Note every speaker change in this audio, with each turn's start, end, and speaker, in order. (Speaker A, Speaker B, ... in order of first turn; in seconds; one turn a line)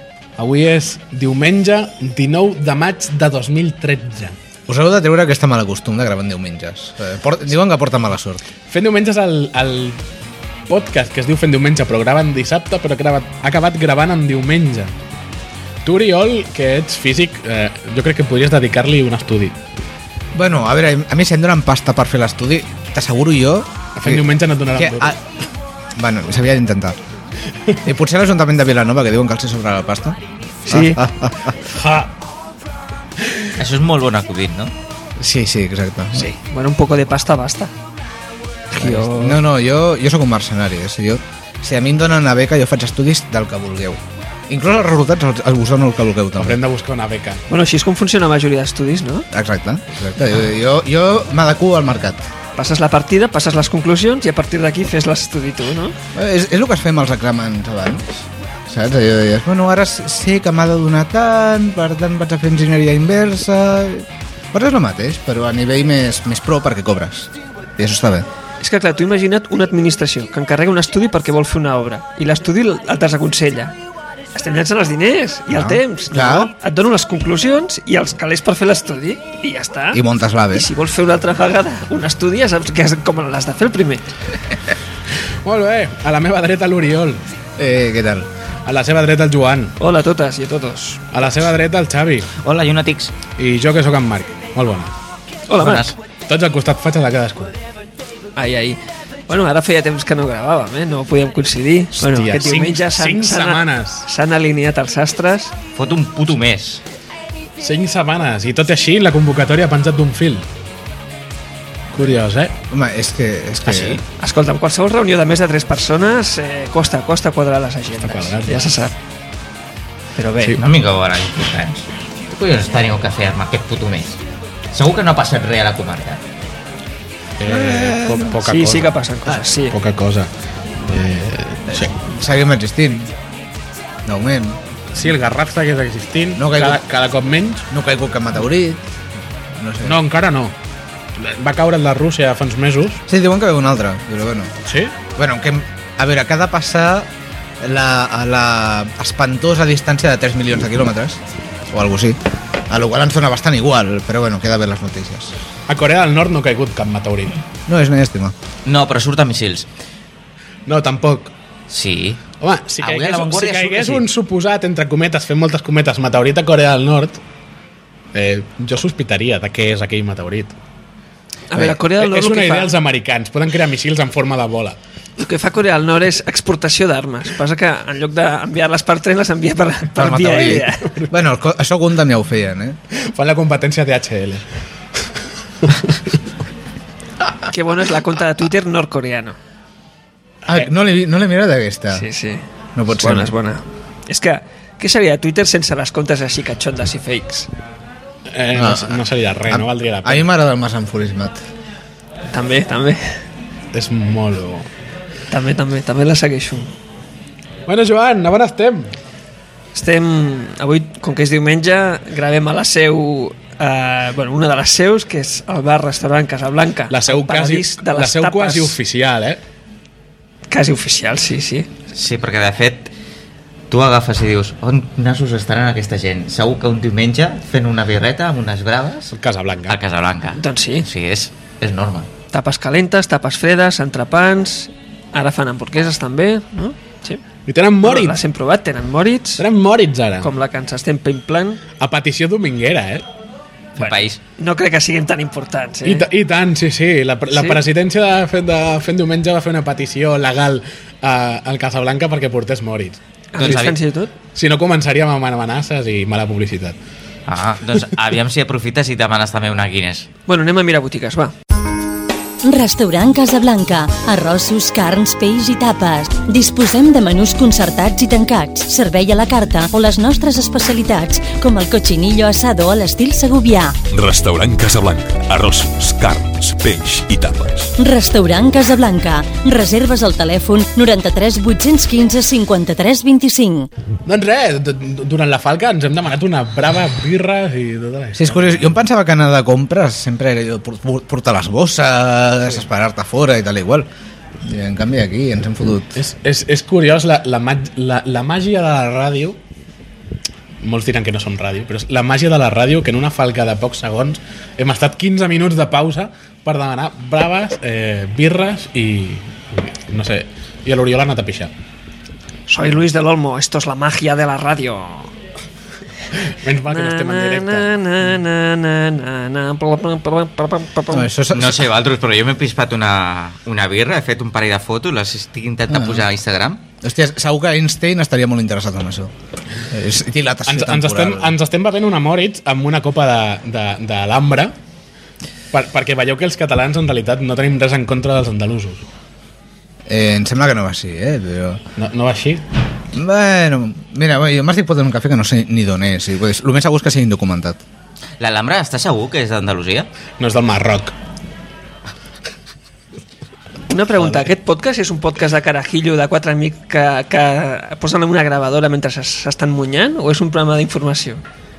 Speaker A: 0.4-4.4
Speaker B: 4.7-8.4
Speaker A: 8.7-10.0
Speaker A: 10.7-14.9
Speaker A: 15.8-19.6
Speaker B: 20.4-25.2
Speaker A: 24.0-25.1
Speaker B: 26.0-27.0
Speaker B: 27.8-31.6
Speaker C: 30.7-31.0
Speaker A: 31.7-32.1
Speaker D: 33.6-34.7
Speaker B: 35.2-36.3
Speaker C: 36.2-37.7
Speaker C: 38.7-39.4
Speaker B: 38.8-46.6
Speaker A: 46.4-47.4
Speaker C: 47.5-49.3
Speaker B: 49.3-52.2
Speaker C: 52.6-56.0
Speaker B: 56.1-68.3
Speaker C: 68.6-73.8
Speaker C: 74.3-84.1
Speaker B: 75.5-76.5
Speaker B: 79.9-80.7
Speaker A: 85.4-87.2
Speaker B: 87.6-88.3
Speaker A: 88.7-89.8
Speaker C: 89.8-91.0
Speaker A: 91.1-92.3
Speaker D: 92.4-93.1
Speaker A: 93.3-94.9
Speaker C: 95.5-95.9
Speaker D: 95.6-96.0
Speaker A: 96.3-97.5
Speaker C: 98.4-105.5
Speaker A: 102.0-104.1
Speaker D: 105.8-106.8
Speaker A: 107.6-110.5
Speaker A: 111.9-112.5
Speaker B: 112.7-114.0
Speaker D: 113.7-114.0
Speaker C: 114.2-118.9
Speaker A: 118.0-118.7
Speaker C: 120.2-120.6
Speaker D: 120.6-124.2
Speaker D: 124.7-126.2
Speaker A: 127.4-128.9
Speaker C: 127.6-129.8
Speaker A: 129.7-130.3
Speaker A: 130.9-132.0
Speaker B: 131.8-133.1
Speaker B: 134.1-134.6
Speaker A: 134.9-137.7
Speaker B: 136.4-136.8
Speaker B: 137.7-138.8
Speaker B: 139.6-140.0
Speaker A: 139.8-140.6
Speaker A: 141.2-143.0
Speaker B: 143.1-144.5
Speaker A: 144.7-144.9
Speaker B: 145.2-147.1
Speaker B: 147.6-152.2
Speaker B: 152.7-155.3
Speaker A: 155.7-157.4
Speaker B: 157.7-158.3
Speaker D: 158.7-159.7
Speaker A: 160.7-161.3
Speaker D: 161.7-162.2
Speaker A: 162.4-167.2
Speaker D: 162.8-164.1
Speaker A: 168.1-170.6
Speaker C: 171.5-172.7
Speaker A: 171.9-174.8
Speaker C: 175.2-180.9
Speaker B: 180.0-182.8
Speaker A: 180.9-181.2
Speaker A: 182.9-184.4
Speaker A: 185.6-185.9
Speaker C: 187.5-189.4
Speaker B: 190.5-192.1
Speaker C: 191.9-197.5
Speaker B: 192.8-193.3
Speaker A: 198.3-200.3
Speaker B: 198.5-201.4
Speaker C: 202.3-203.1
Speaker A: 203.7-204.7
Speaker C: 205.3-206.7
Speaker A: 207.7-208.9
Speaker C: 209.8-218.8
Speaker A: 216.9-219.4
Speaker C: 220.5-221.7
Speaker D: 221.9-222.9
Speaker D: 223.7-229.1
Speaker A: 229.1-229.8
Speaker D: 229.7-232.1
Speaker C: 230.3-230.9
Speaker C: 232.3-237.2
Speaker A: 237.5-238.2
Speaker C: 237.8-239.4
Speaker A: 239.4-240.3
Speaker C: 240.2-241.6
Speaker A: 241.8-243.1
Speaker D: 243.8-244.2
Speaker C: 243.8-246.1
Speaker A: 245.8-253.6
Speaker C: 247.3-247.6
Speaker C: 253.3-254.1
Speaker D: 253.4-253.8
Speaker A: 254.3-256.8
Speaker D: 257.3-260.1
Speaker C: 260.3-261.3
Speaker E: 262.4-273.8
Speaker F: 273.9-277.7
Speaker E: 277.8-283.7
Speaker A: 284.1-288.7
Speaker B: 288.2-293.9
Speaker B: 294.4-296.0
Speaker A: 295.9-299.4
Speaker A: 300.6-311.5
Speaker C: 312.5-315.1
Speaker A: 316.3-317.7
Speaker C: 316.7-321.1
Speaker B: 320.9-321.7
Speaker D: 321.3-326.6
Speaker B: 325.7-326.1
Speaker B: 326.8-329.1
Speaker B: 329.7-331.4
Speaker A: 330.5-334.5
Speaker A: 335.5-338.9
Speaker B: 339.9-341.6
Speaker A: 341.8-342.4
Speaker B: 342.9-347.6
Speaker D: 348.2-349.9
Speaker A: 350.2-350.9
Speaker C: 353.7-361.2